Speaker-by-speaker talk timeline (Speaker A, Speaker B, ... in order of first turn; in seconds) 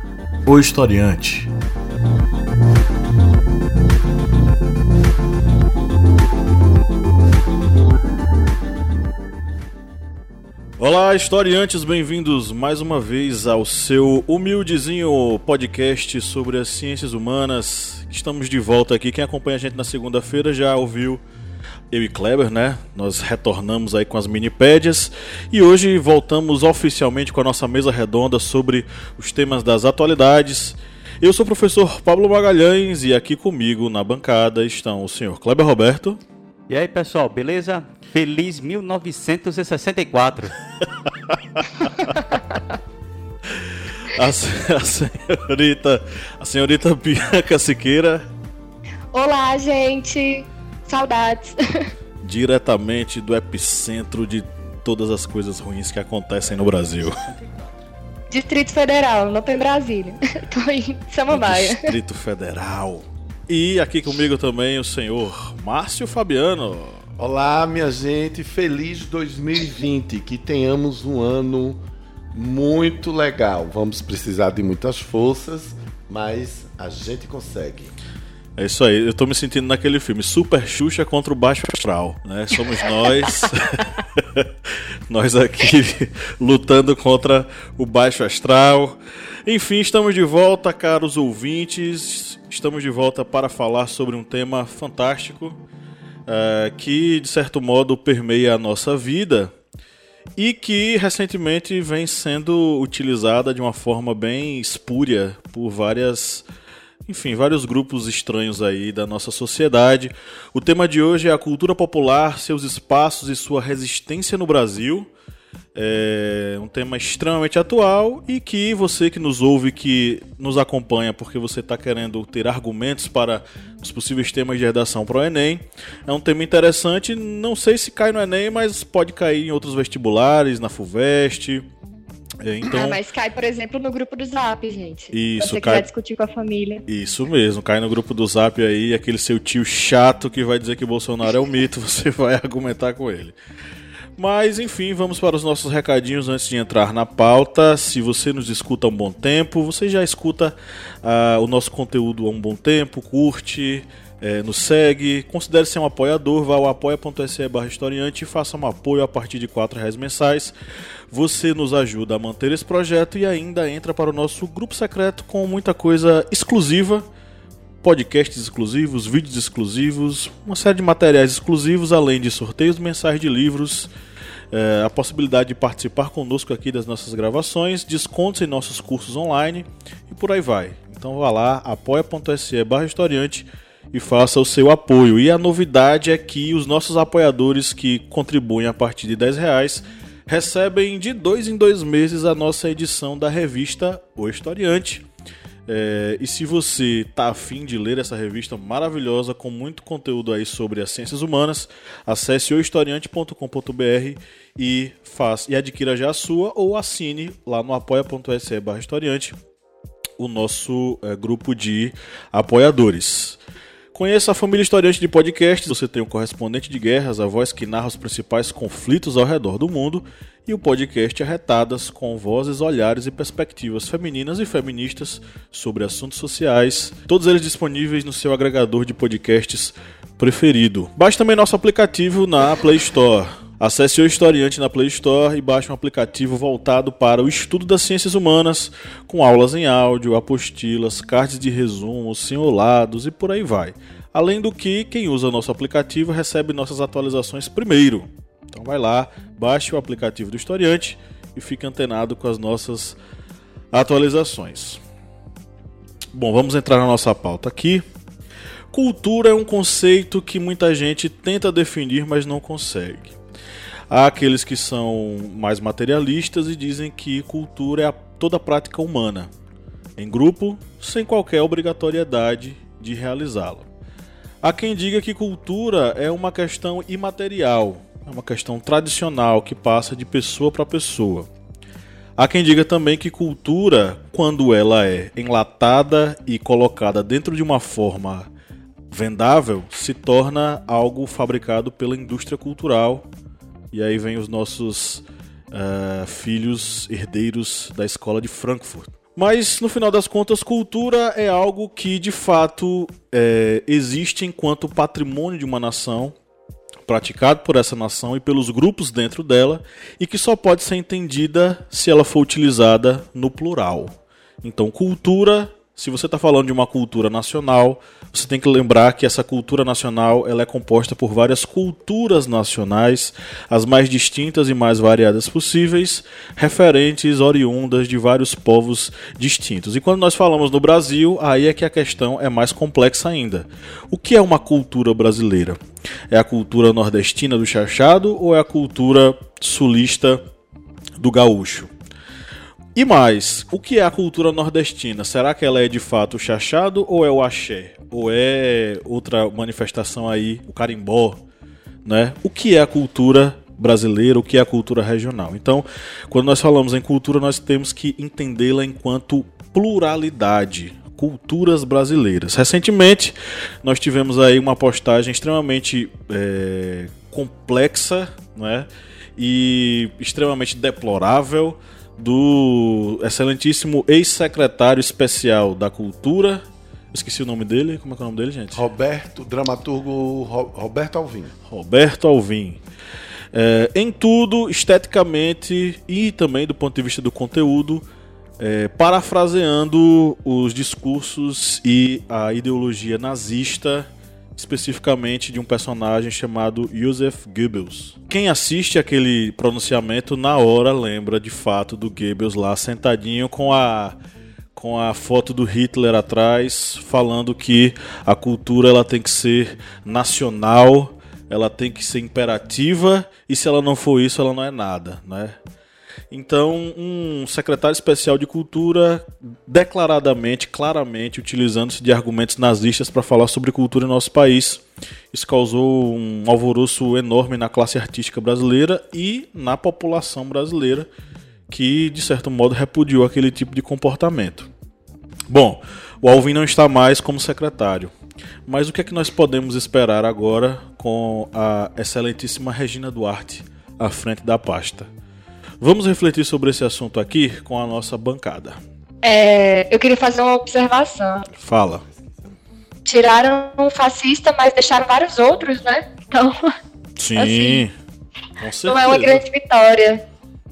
Speaker A: 0.5-1.5, 10.8-21.2, 21.9-36.2, 43.9-48.2, 52.2-57.3, 61.3-67.0, 78.6-84.5, 85.1-95.6, 96.3-99.5, 100.4-106.5, 107.1-115.1, 115.8-131.7, 132.4-133.0, 135.1-135.9, 136.9-143.3, 144.2-160.5, 161.1-167.1, 167.8-173.9, 174.5-195.1, 195.7-209.4, 210.2-213.4, 213.9-253.0, 253.7-254.8, 256.1-257.8, 258.7-263.1, 263.9-269.3, 270.0-273.7, 274.4-281.3, 282.2-288.3, 288.9-293.1, 293.7-306.1, 306.9-335.6, 336.1-340.2, 341.0-341.7, 342.8-351.2, 351.9-376.4, 376.9-378.6, 381.5-382.6, 383.3-387.9, 388.4-404.0, 404.6-415.4, 416.1-430.9, 431.5-434.5, 435.3-437.9, 438.5-444.9, 445.6-448.6, 451.4-451.8, 457.0-457.7, 458.4-459.2
Speaker B: 36.7-40.6
Speaker C: 49.1-51.9, 58.3-61.9, 132.6-136.8, 449.0-451.3, 452.9-456.5, 457.2-457.6, 458.7-460.0
Speaker D: 67.2-71.8, 72.3-77.9, 378.5-381.3